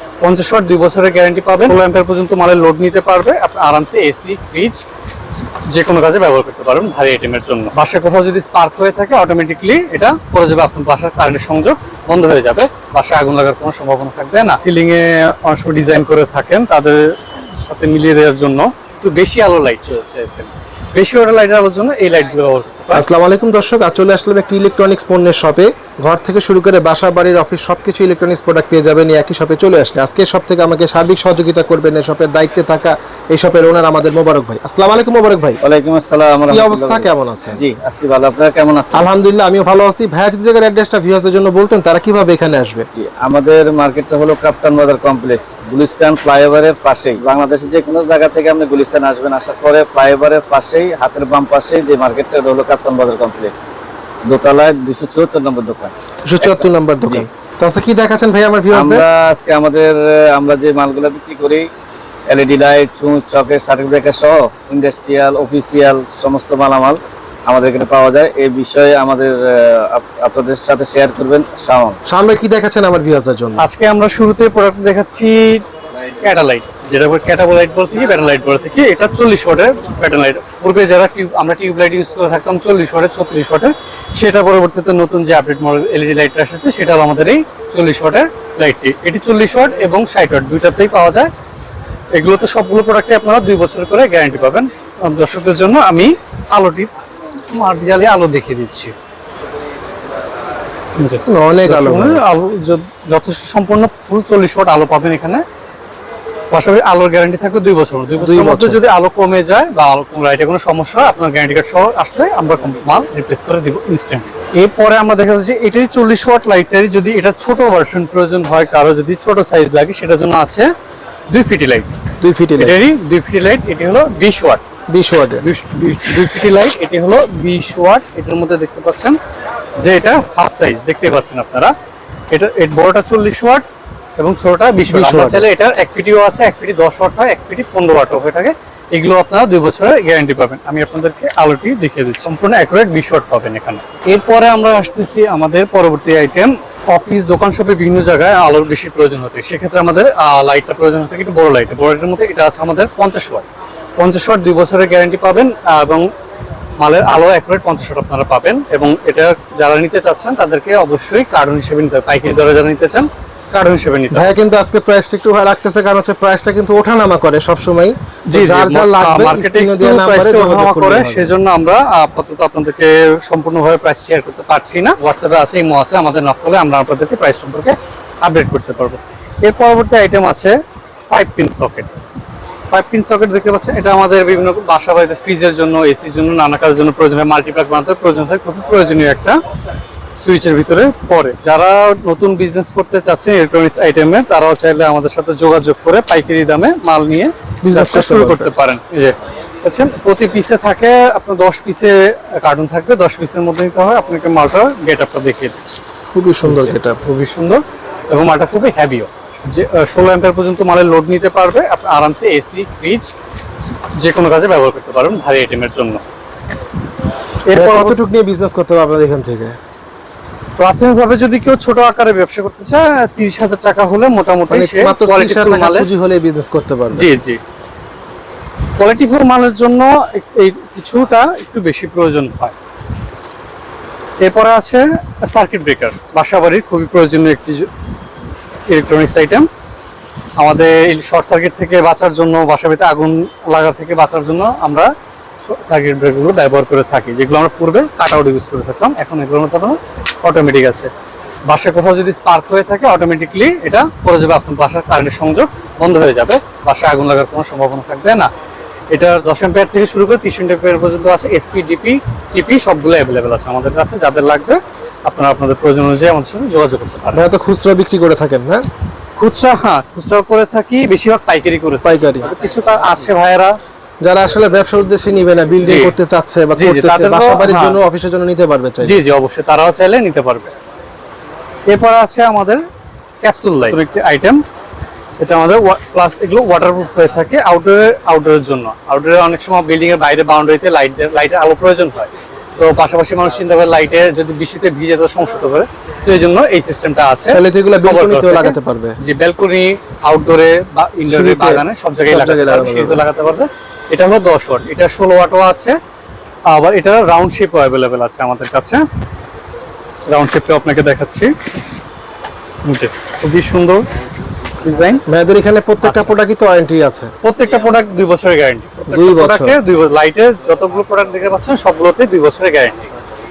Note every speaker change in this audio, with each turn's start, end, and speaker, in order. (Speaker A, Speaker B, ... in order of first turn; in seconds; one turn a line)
Speaker A: 0.2-4.8
Speaker A: 5.7-23.0
Speaker B: 22.9-35.6
Speaker C: 35.6-39.1
Speaker B: 36.5-37.6
Speaker B: 38.9-42.9
Speaker C: 42.9-53.7
Speaker C: 54.2-57.3
Speaker B: 56.2-59.0
Speaker C: 58.7-61.7
Speaker C: 62.3-72.0
Speaker B: 72.1-73.6
Speaker A: 73.6-75.6
Speaker A: 76.2-91.3
Speaker A: 92.1-96.9
Speaker A: 97.5-98.9
Speaker A: 101.0-105.4
Speaker B: 101.3-102.2
Speaker A: 106.5-120.7
Speaker B: 108.2-108.8
Speaker A: 121.3-121.9
Speaker B: 122.2-122.8
Speaker A: 122.6-124.6
Speaker B: 124.9-125.4
Speaker A: 125.4-129.2
Speaker A: 129.8-131.7
Speaker A: 132.3-133.6
Speaker A: 134.2-156.1
Speaker B: 134.9-135.5
Speaker A: 156.8-164.3
Speaker B: 164.1-171.4
Speaker A: 168.3-180.6
Speaker A: 181.1-181.9
Speaker A: 182.7-189.4
Speaker A: 190.1-205.8
Speaker B: 197.6-198.5
Speaker B: 206.1-207.0
Speaker A: 206.4-213.1
Speaker A: 214.0-216.0
Speaker A: 217.4-218.0
Speaker B: 217.5-219.6
Speaker A: 220.6-225.9
Speaker B: 224.5-227.1
Speaker A: 226.9-227.4
Speaker A: 228.8-232.5
Speaker A: 234.2-237.7
Speaker A: 238.7-239.5
Speaker A: 240.4-244.9
Speaker A: 245.4-250.9
Speaker A: 251.5-258.3
Speaker A: 258.9-267.2
Speaker B: 267.1-268.6
Speaker A: 269.2-273.6
Speaker B: 271.8-272.3
Speaker B: 274.0-279.0
Speaker A: 275.6-275.9
Speaker A: 276.6-277.8
Speaker A: 278.8-280.5
Speaker A: 281.7-282.6
Speaker A: 283.2-284.4
Speaker A: 285.2-305.8
Speaker B: 297.3-298.9
Speaker B: 301.1-303.0
Speaker A: 306.5-308.8
Speaker A: 310.1-311.3
Speaker A: 312.6-313.9
Speaker A: 314.6-315.0
Speaker B: 315.1-317.1
Speaker A: 315.8-316.2
Speaker A: 317.2-322.9
Speaker B: 318.9-319.6